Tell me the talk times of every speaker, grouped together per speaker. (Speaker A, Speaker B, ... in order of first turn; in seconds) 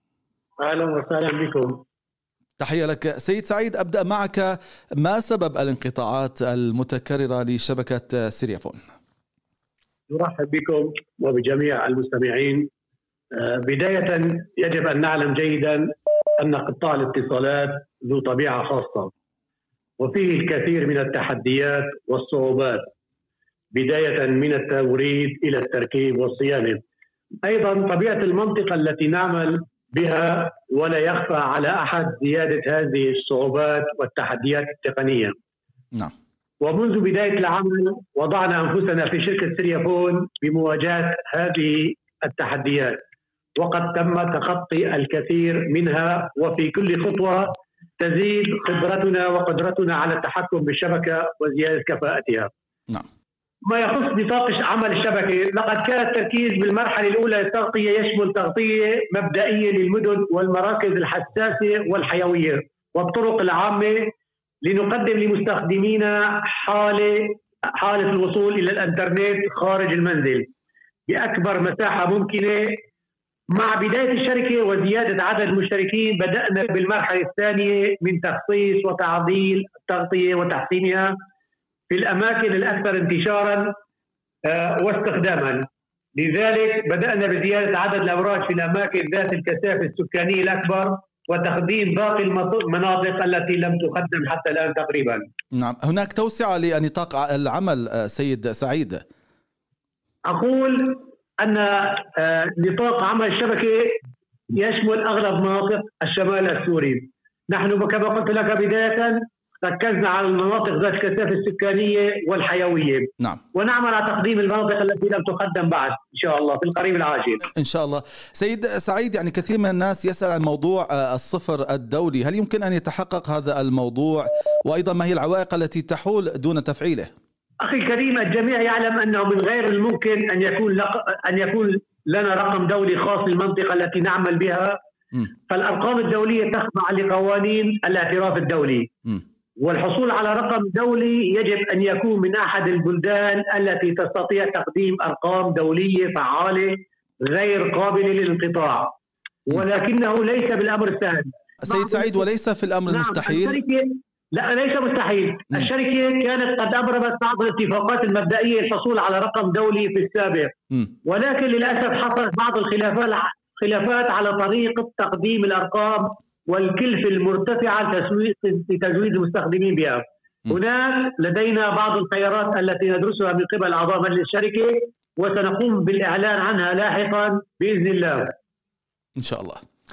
Speaker A: 0.6-1.8, 10.1-12.7, 13.3-19.1, 20.0-22.9, 23.7-26.8, 27.4-35.4, 36.6-43.0, 43.6-52.5, 53.7-64.1, 64.6-70.5, 71.1-72.8, 73.5-81.1, 81.9-83.7, 84.4-95.3, 100.3-104.0, 104.5-117.5, 127.6-134.8, 135.5-138.9, 139.6-149.0, 149.5-152.2, 152.9-160.5, 161.1-178.3
Speaker B: 2.6-8.8, 95.5-99.0, 117.6-127.1, 151.7-153.6, 179.2-179.6